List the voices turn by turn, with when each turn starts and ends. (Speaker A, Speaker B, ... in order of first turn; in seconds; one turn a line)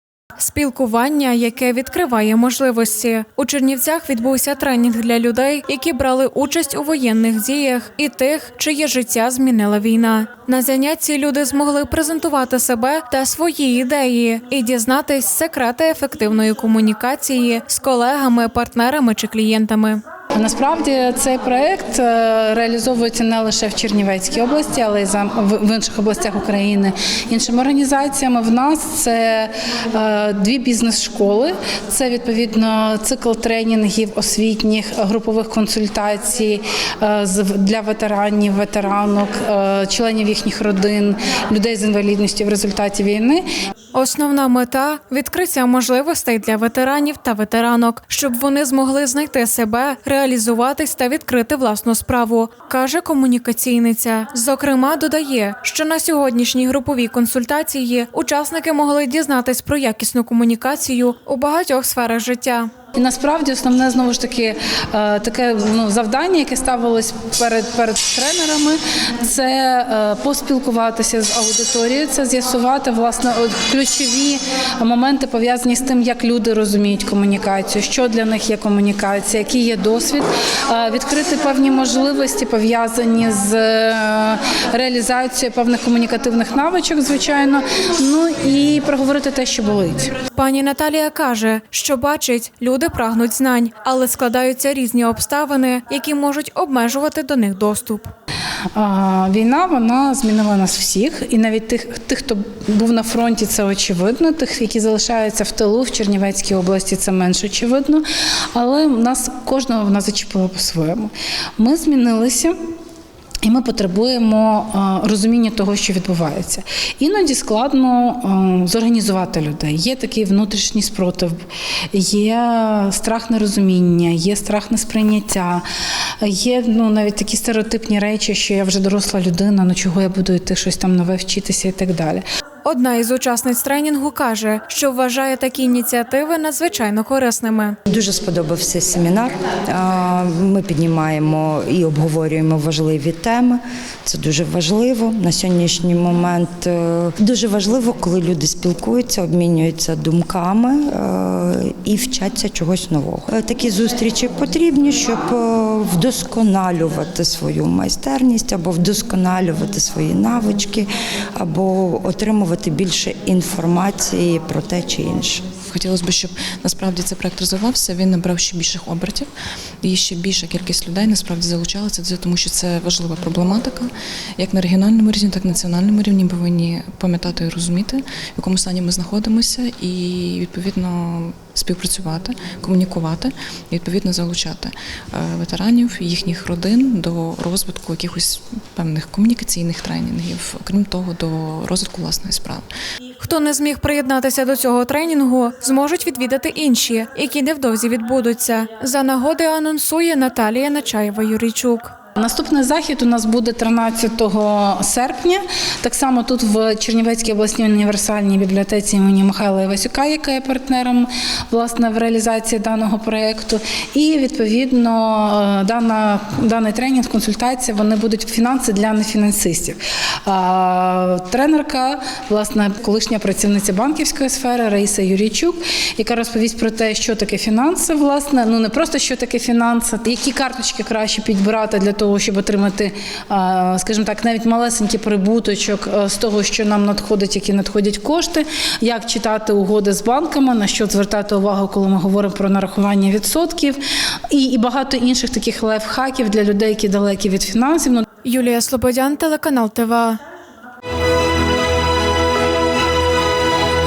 Speaker A: 0.4-20.0
Speaker B: 20.3-43.4
Speaker A: 43.9-62.7
Speaker B: 62.9-90.1
Speaker A: 90.3-98.1
Speaker B: 98.8-112.5
Speaker B: 113.4-121.4
Speaker B: 121.9-125.6
Speaker B: 126.2-132.2
Speaker A: 132.6-137.8
Speaker C: 137.9-165.4
Speaker D: 165.7-169.3
Speaker D: 169.8-192.7
Speaker A: 193.2-201.9
Speaker B: 202.2-243.8
Speaker B: 244.3-248.0
Speaker A: 248.2-250.2